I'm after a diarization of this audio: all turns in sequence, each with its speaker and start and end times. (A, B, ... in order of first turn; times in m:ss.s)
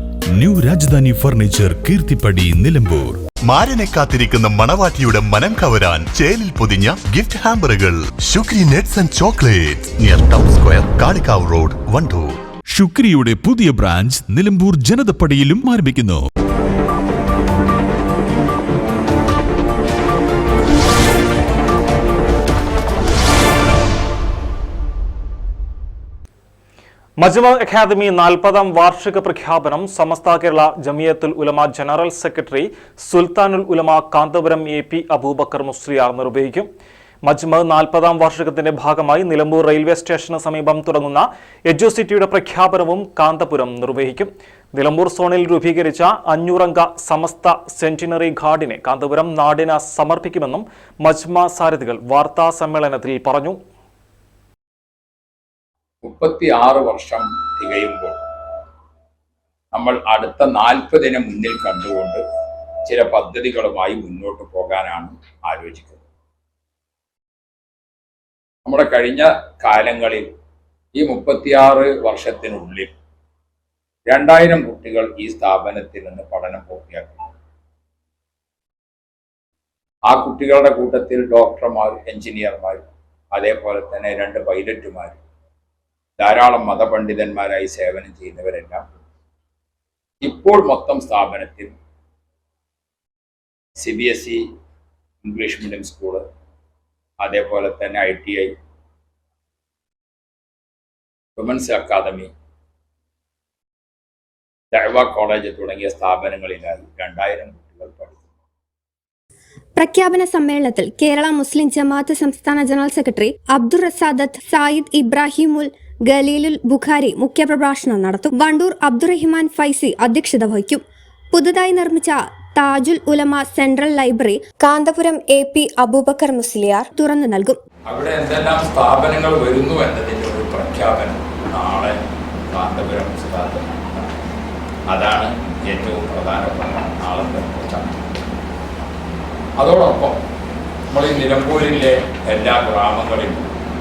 0:00.4-0:03.2 A
0:03.5-0:12.3 B
0:12.7-0:16.2 A
0:27.2-0:36.7 C
0:37.2-0:53.6 C
0:56.0-0:58.2 D
0:59.7-1:02.2 D
1:02.9-1:06.0 D
1:08.6-1:10.2 D
1:11.0-1:12.9 D
1:14.1-1:17.3 D
1:20.1-1:22.8 D
1:23.3-1:25.2 D
1:26.2-1:28.9 D
1:30.2-1:31.7 D
1:33.8-1:34.4 D
1:35.2-1:36.2 D
1:37.2-1:38.5 D
1:41.4-1:42.3 D
1:44.7-1:48.2 D
1:49.8-2:07.6 E
2:07.9-2:12.0 D
2:12.5-2:14.1 D
2:14.9-2:18.1 D
2:19.6-2:20.2 D
2:20.9-2:23.5 D